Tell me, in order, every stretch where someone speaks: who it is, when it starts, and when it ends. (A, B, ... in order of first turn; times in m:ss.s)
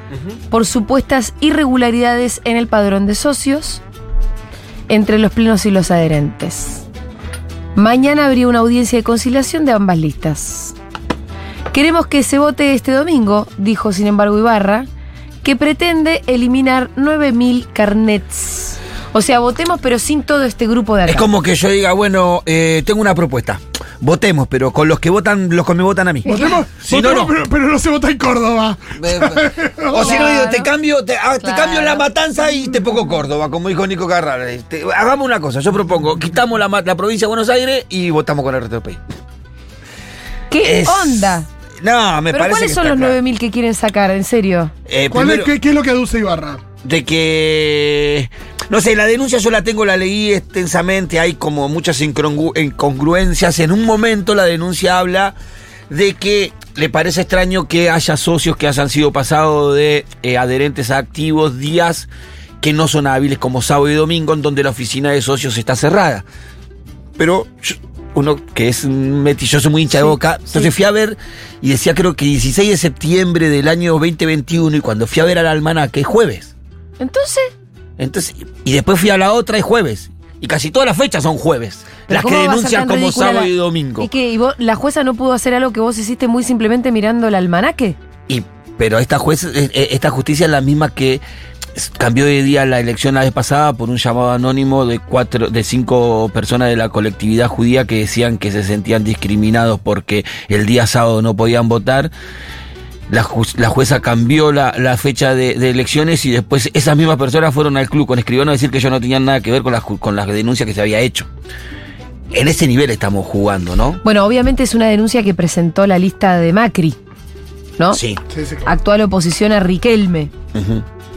0:00.5-0:03.8 A
0:04.9-0:06.8 A
0:07.8-0:10.7 A
0:11.7-0:14.9 A
0:15.4-0:21.3 A
0:21.0-0:27.3 B
0:26.3-0:30.2 C
0:29.0-0:39.0 B
0:29.9-0:30.7 A
0:31.4-0:32.0 A
0:40.5-0:41.5 A
0:40.6-0:43.2 B
0:42.3-0:44.7 A
0:44.9-0:45.5 B
0:45.1-0:46.6 C
0:46.8-0:55.4 B
0:55.9-1:02.1 B
1:02.6-1:06.2 B
1:07.2-1:16.5 B
1:10.0-1:10.7 A
1:17.0-1:17.5 A
1:18.0-1:24.1 B
1:22.1-1:28.0 A
1:28.3-1:31.2 B
1:31.8-1:42.1 B
1:43.1-1:51.3 B
1:52.3-1:54.0 B
1:54.0-1:57.0 A
1:57.9-1:58.2 B
1:58.3-1:58.7 C
1:58.6-2:00.3 A
2:00.5-2:00.8 B